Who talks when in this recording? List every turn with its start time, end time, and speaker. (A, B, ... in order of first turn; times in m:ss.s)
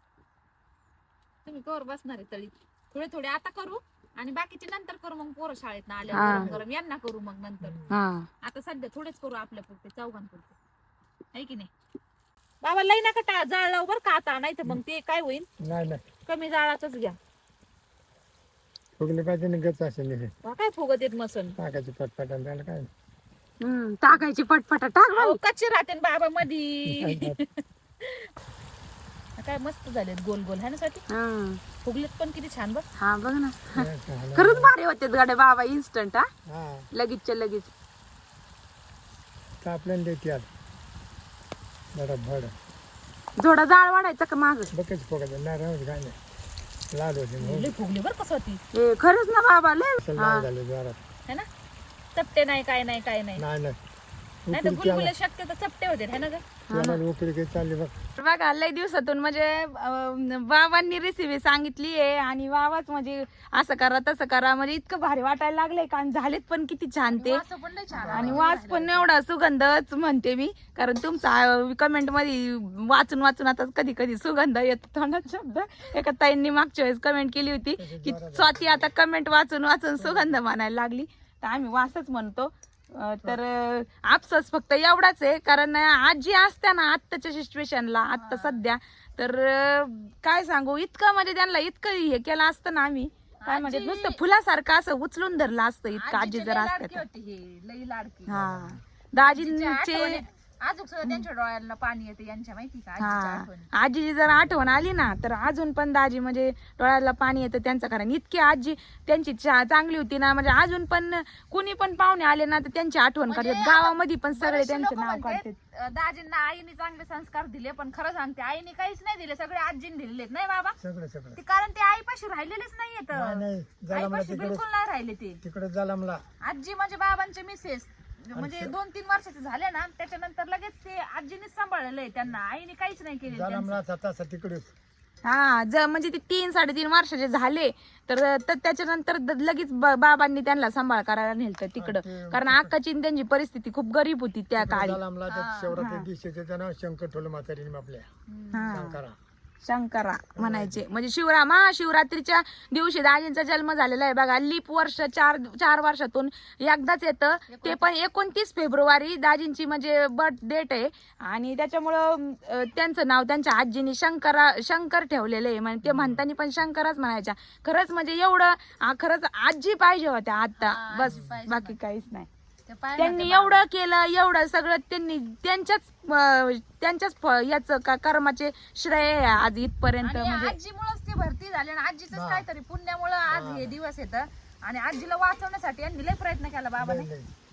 0:01.4-0:07.8 A
0:06.1-0:06.6 B
0:06.1-0:06.5 C
0:07.6-0:08.0 B
0:07.9-0:08.3 C
0:08.4-0:10.6 A
0:11.3-0:11.7 A
0:12.6-0:15.5 A
0:15.6-0:16.0 B
0:16.2-0:17.2 A
0:19.0-0:20.3 B
0:20.4-0:21.6 A
0:21.6-0:22.9 B
0:23.6-0:25.4 C
0:25.1-0:28.3 A
0:26.9-0:27.4 B
0:29.4-0:31.0 A
0:31.1-0:31.6 C
0:31.8-0:32.8 A
0:33.0-0:36.3 C
0:33.7-0:34.7 B
0:36.5-0:36.9 B
0:36.9-0:37.7 C
0:39.6-0:40.5 B
0:41.9-0:42.5 B
0:43.4-0:44.7 C
0:44.7-0:46.2 B
0:46.9-0:47.8 B
0:47.4-0:48.6 A
0:48.7-0:50.5 C
0:50.0-0:51.0 B
0:52.2-0:53.4 A
0:53.4-0:53.8 B
0:54.4-0:55.1 B
0:54.5-0:56.4 A
0:56.7-0:57.0 C
0:56.7-0:58.0 B
0:58.2-1:07.4 C
1:07.1-1:09.1 A
1:07.9-1:08.4 B
1:08.1-1:37.0 C
1:17.8-1:18.9 B
1:20.0-1:20.4 B
1:28.2-1:28.6 A
1:33.4-1:34.2 A
1:35.9-1:38.3 A
1:38.3-1:40.2 C
1:38.3-1:38.8 B
1:39.2-1:43.7 A
1:43.0-1:55.6 C
1:53.3-2:00.8 A
2:00.8-2:01.4 B
2:01.4-2:05.4 A
2:03.1-2:04.6 B
2:05.4-2:06.2 B
2:06.4-2:13.8 A
2:08.3-2:08.7 B
2:13.3-2:14.7 B
2:15.2-2:25.0 C
2:21.8-2:22.8 B
2:24.6-2:28.1 B
2:25.3-2:25.8 A
2:25.7-2:26.1 C
2:28.3-2:28.8 A
2:28.5-2:29.0 C
2:28.7-2:29.2 B
2:29.6-2:52.3 C
2:30.4-2:30.8 B
2:37.5-2:37.9 A
2:45.8-2:46.2 B
2:50.6-2:51.8 A
2:51.0-2:51.4 B
2:52.7-2:53.6 A
2:53.0-3:00.6 C
3:00.0-3:07.1 A
3:02.1-3:02.5 B
3:03.3-3:03.8 B
3:06.8-3:07.3 B